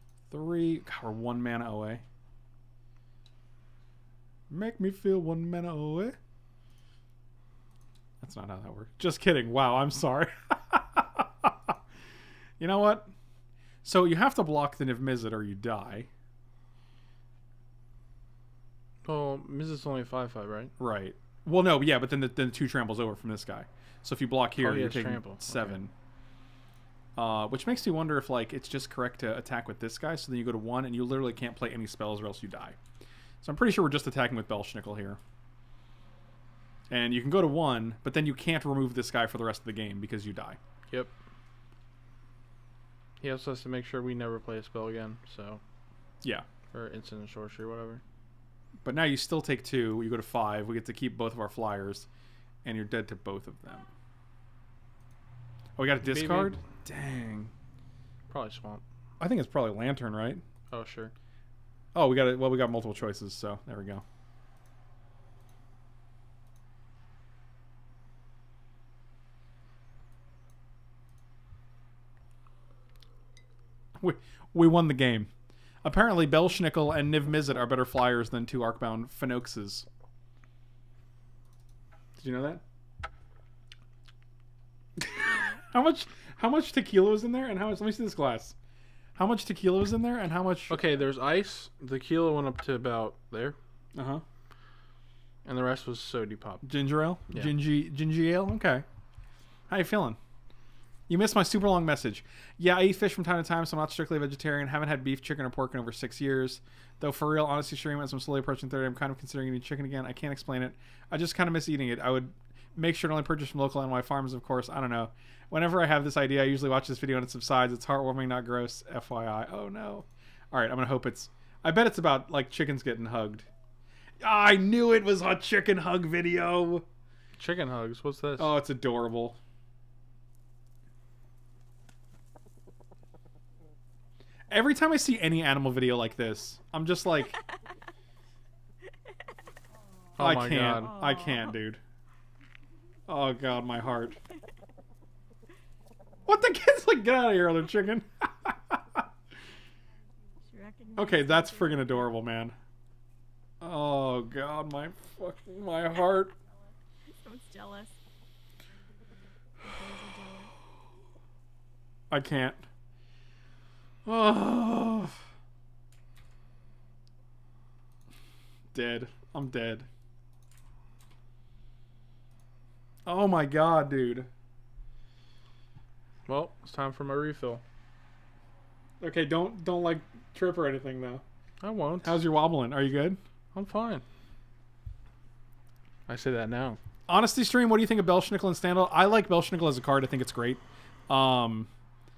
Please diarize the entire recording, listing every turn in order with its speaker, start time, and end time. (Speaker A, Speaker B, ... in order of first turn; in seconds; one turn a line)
Speaker A: 0.3-2.0
Speaker A: 4.5-6.2
Speaker A: 8.2-11.7
Speaker A: 12.6-13.1
Speaker A: 13.8-16.1
Speaker B: 19.0-20.7
Speaker A: 20.8-25.9
Speaker B: 24.6-25.8
Speaker A: 27.1-32.8
Speaker A: 33.4-35.2
Speaker A: 36.9-40.6
Speaker B: 43.2-45.6
Speaker B: 46.7-48.0
Speaker A: 48.8-52.1
Speaker A: 52.6-53.9
Speaker A: 55.8-57.5
Speaker B: 56.0-56.6
Speaker B: 58.3-58.8
Speaker A: 59.2-60.4
Speaker B: 60.7-61.1
Speaker A: 61.9-64.0
Speaker A: 74.0-75.3
Speaker A: 75.8-79.9
Speaker A: 82.2-82.6
Speaker A: 85.0-88.5
Speaker A: 89.2-90.8
Speaker B: 90.7-93.6
Speaker A: 93.9-94.2
Speaker B: 95.4-96.6
Speaker A: 96.6-98.8
Speaker A: 99.7-100.2
Speaker A: 101.1-123.5
Speaker A: 124.2-126.8
Speaker B: 127.4-128.5
Speaker A: 128.4-129.4
Speaker A: 134.5-137.4
Speaker B: 140.2-140.9
Speaker A: 140.2-141.8
Speaker C: 140.9-141.4
Speaker A: 143.1-144.2
Speaker A: 146.2-149.0
Speaker C: 150.4-151.9
Speaker A: 150.9-152.5
Speaker A: 153.6-156.3
Speaker C: 157.1-158.0
Speaker C: 159.6-160.5
Speaker A: 162.1-162.6
Speaker A: 164.0-165.2
Speaker A: 168.7-169.9
Speaker A: 173.0-174.3
Speaker B: 176.2-177.6
Speaker A: 179.0-181.2
Speaker B: 181.6-182.2
Speaker A: 182.0-183.2
Speaker B: 183.5-184.0
Speaker B: 186.1-186.8
Speaker A: 187.1-191.7